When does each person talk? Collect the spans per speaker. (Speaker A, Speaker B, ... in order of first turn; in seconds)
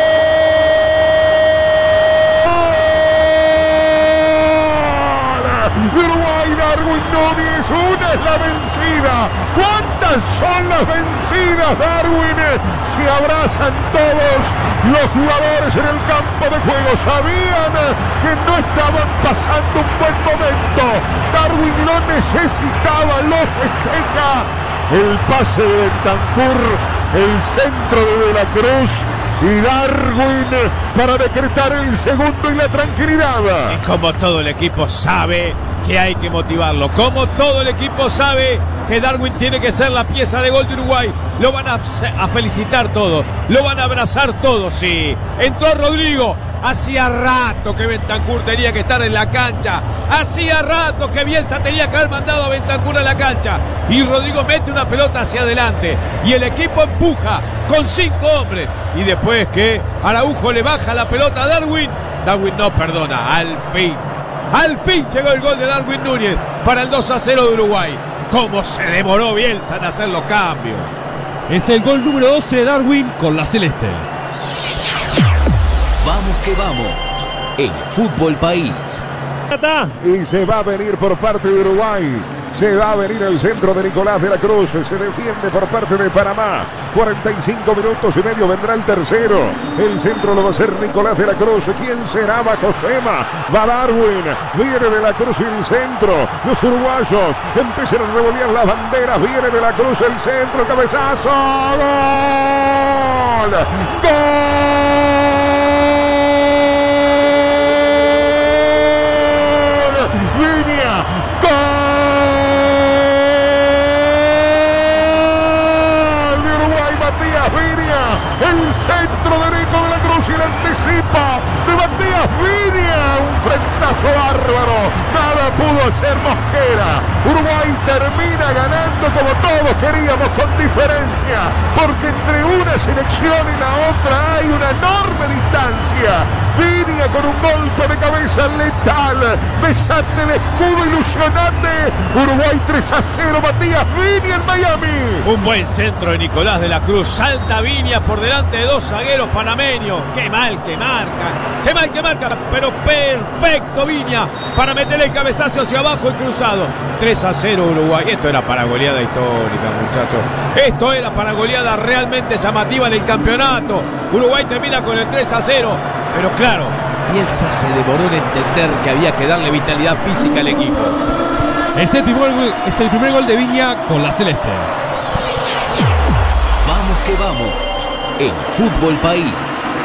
Speaker A: 2.4-33.8, 80.0-106.8, 108.1-145.3
Speaker B: 33.7-70.9, 145.2-171.0
Speaker C: 71.5-74.1, 171.7-174.7
Speaker D: 76.0-79.0, 176.6-177.6, 178.2-179.6